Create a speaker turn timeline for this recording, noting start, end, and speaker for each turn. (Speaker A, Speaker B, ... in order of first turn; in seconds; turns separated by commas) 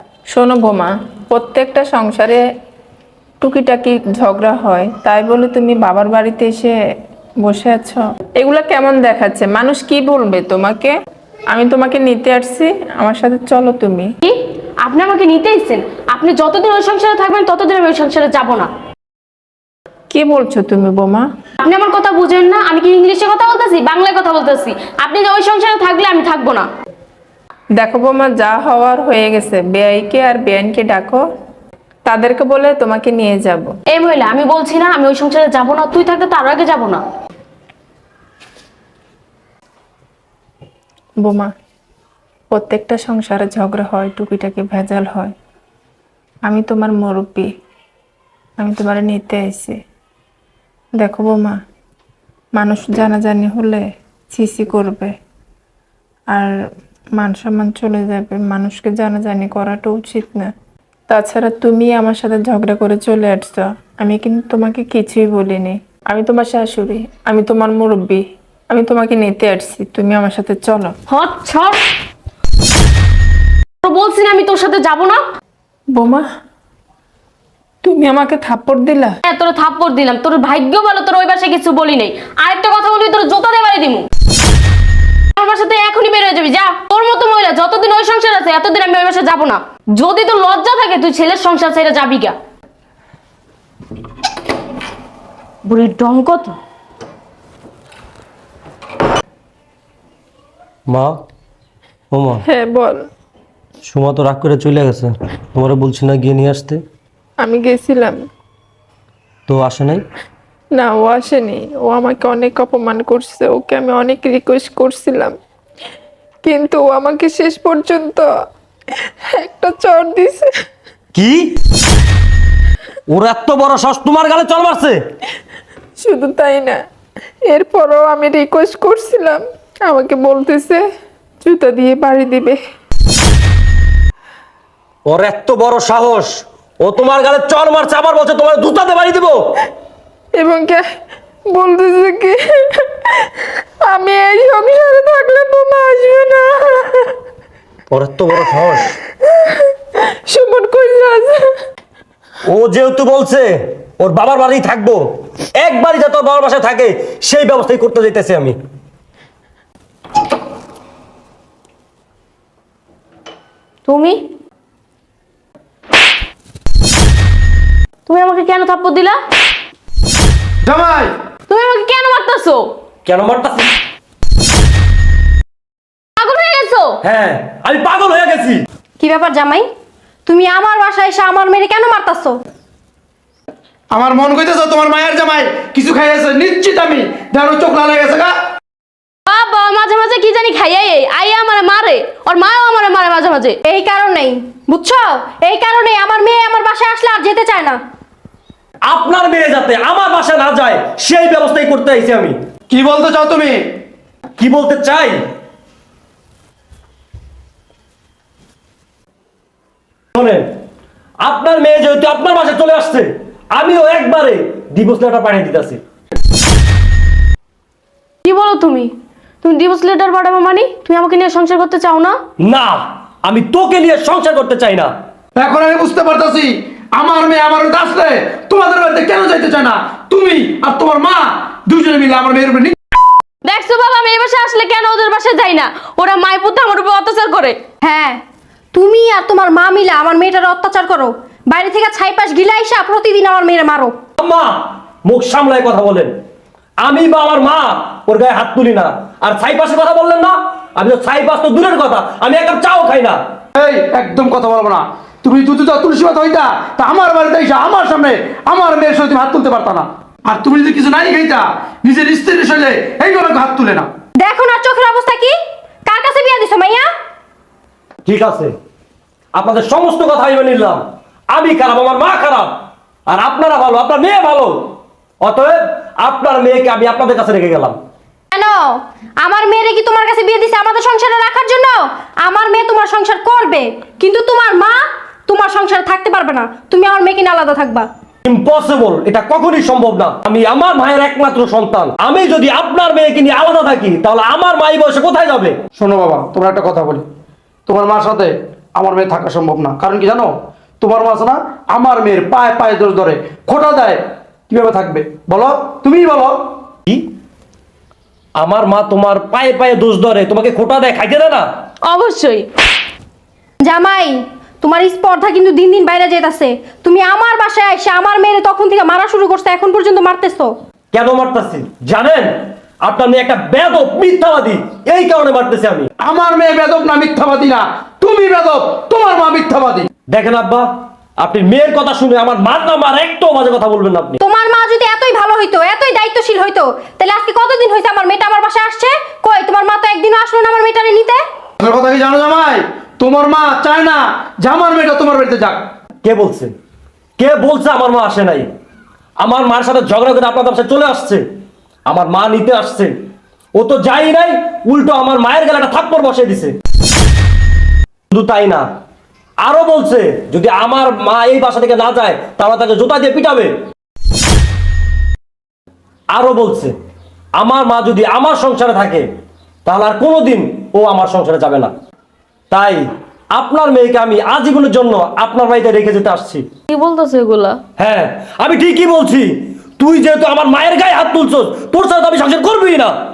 Speaker A: 0.3-2.4, Speaker A: 3.4-6.7, Speaker A: 7.4-10.9, Speaker A: 11.5-14.1, Speaker B: 14.2-18.7, Speaker A: 20.1-21.2, Speaker B: 21.6-26.7, Speaker A: 27.8-31.2, Speaker A: 32.0-33.7, Speaker B: 33.9-37.0, Speaker A: 41.2-41.5, Speaker A: 42.5-45.3, Speaker A: 46.5-47.5, Speaker A: 48.6-49.8, Speaker A: 51.0-51.5, Speaker A: 52.5-55.1, Speaker A: 57.2-60.5, Speaker A: 61.1-70.9, Speaker B: 71.1-71.8, Speaker B: 73.8-75.2, Speaker A: 76.0-76.2, Speaker A: 77.8-79.2, Speaker B: 79.2-84.0, Speaker B: 85.3-92.3, Speaker B: 95.7-96.5, Speaker C: 100.9-101.2, Speaker C: 102.1-102.4, Speaker A: 102.5-103.0, Speaker C: 103.8-106.8, Speaker A: 107.4-108.2, Speaker C: 109.5-110.0, Speaker A: 110.7-115.3, Speaker A: 116.4-118.2, Speaker A: 119.4-120.5, Speaker C: 121.1-121.6, Speaker C: 123.1-125.0, Speaker A: 126.0-126.7, Speaker A: 127.5-130.8, Speaker A: 131.4-132.6, Speaker C: 135.1-139.5, Speaker A: 140.3-140.8, Speaker A: 141.5-143.3, Speaker A: 143.8-147.1, Speaker C: 147.9-149.0, Speaker A: 150.3-151.4, Speaker C: 152.4-158.6, Speaker B: 163.8-164.2, Speaker B: 168.1-169.2, Speaker D: 170.6-171.1, Speaker B: 171.5-172.7, Speaker C: 173.0-173.7, Speaker B: 176.2-176.9, Speaker C: 177.0-178.6, Speaker E: 179.0-179.7, Speaker E: 180.2-182.4, Speaker D: 183.9-188.3, Speaker B: 189.2-193.6, Speaker E: 193.6-197.8, Speaker C: 198.8-202.3, Speaker D: 202.7-203.6, Speaker C: 204.4-205.2, Speaker C: 210.1-210.4, Speaker C: 211.2-215.8, Speaker B: 218.2-218.9, Speaker B: 219.4-222.2, Speaker C: 222.4-224.9, Speaker D: 225.3-232.7, Speaker B: 233.4-237.6, Speaker E: 237.8-238.2, Speaker E: 238.7-243.9, Speaker C: 244.2-246.1, Speaker C: 246.8-253.2, Speaker D: 253.6-263.9, Speaker E: 264.2-265.3, Speaker E: 265.9-266.9, Speaker C: 268.1-268.5, Speaker C: 269.3-272.5, Speaker C: 273.1-274.7, Speaker C: 275.2-277.8, Speaker E: 278.3-287.9, Speaker C: 288.2-295.6, Speaker D: 295.7-297.0, Speaker D: 297.7-306.4, Speaker C: 308.4-311.5, Speaker B: 311.8-312.5, Speaker E: 313.6-320.5, Speaker C: 320.9-322.3, Speaker C: 322.8-325.9, Speaker D: 326.0-329.9, Speaker C: 330.1-334.2, Speaker E: 334.2-341.2, Speaker D: 341.6-345.6, Speaker C: 346.0-346.5, Speaker C: 347.2-348.5, Speaker C: 349.2-351.2, Speaker C: 351.9-352.9, Speaker C: 353.5-356.6, Speaker C: 358.1-358.6, Speaker C: 359.4-363.5, Speaker C: 366.1-366.7, Speaker C: 367.4-369.1, Speaker C: 369.6-371.7, Speaker C: 372.5-372.8, Speaker C: 373.3-376.4, Speaker B: 376.7-377.6, Speaker C: 377.8-383.0